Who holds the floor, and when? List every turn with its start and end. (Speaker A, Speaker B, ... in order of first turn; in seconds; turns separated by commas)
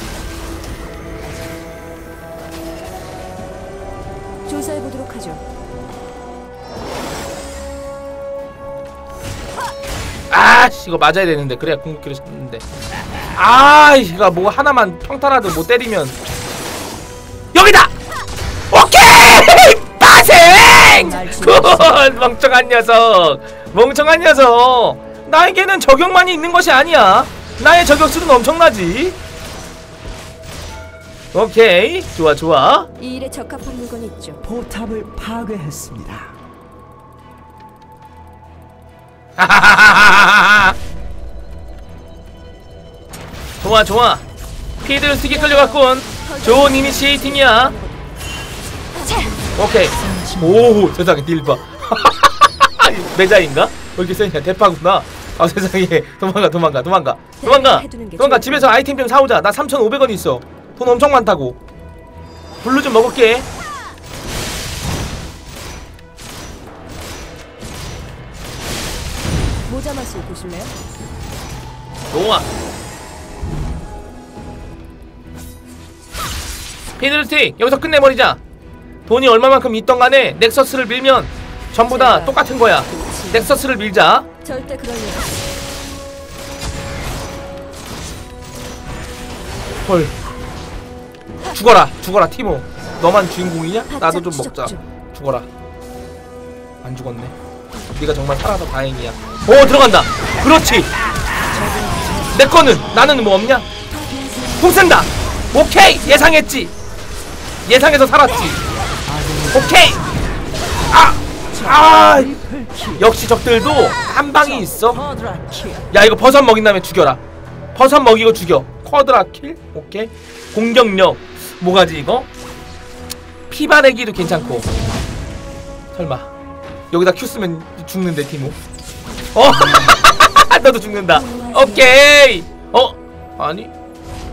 Speaker A: 4.5-5.4, Speaker B: 10.3-12.6, Speaker B: 13.3-16.2, Speaker B: 17.5-17.9, Speaker B: 18.7-29.2, Speaker A: 20.3-22.1, Speaker B: 31.3-32.9, Speaker A: 33.0-34.4, Speaker C: 34.4-36.3, Speaker B: 39.4-40.8, Speaker B: 43.6-44.2, Speaker B: 44.8-47.7, Speaker A: 45.3-48.1, Speaker B: 49.6-61.6, Speaker C: 50.0-50.8, Speaker A: 57.4-58.7, Speaker B: 62.6-63.5, Speaker A: 69.7-70.7, Speaker B: 72.1-72.5, Speaker B: 77.0-78.4, Speaker B: 79.0-84.3, Speaker A: 81.9-83.6, Speaker A: 84.4-85.4, Speaker B: 89.8-90.1, Speaker B: 91.5-95.5, Speaker A: 93.9-94.8, Speaker B: 96.8-97.3, Speaker B: 97.9-100.9, Speaker A: 101.5-102.3, Speaker C: 101.5-102.4, Speaker B: 102.3-103.7, Speaker C: 104.0-104.8, Speaker B: 104.6-106.7, Speaker B: 107.7-108.6, Speaker C: 109.0-110.2, Speaker B: 109.5-110.0, Speaker B: 110.9-112.4, Speaker C: 111.5-113.0, Speaker B: 113.0-115.1, Speaker C: 114.7-115.9, Speaker B: 115.9-117.2, Speaker B: 117.7-122.3, Speaker B: 123.5-124.7, Speaker A: 124.2-125.0, Speaker B: 125.9-126.3, Speaker B: 126.9-128.6, Speaker B: 129.3-133.7, Speaker A: 130.9-132.0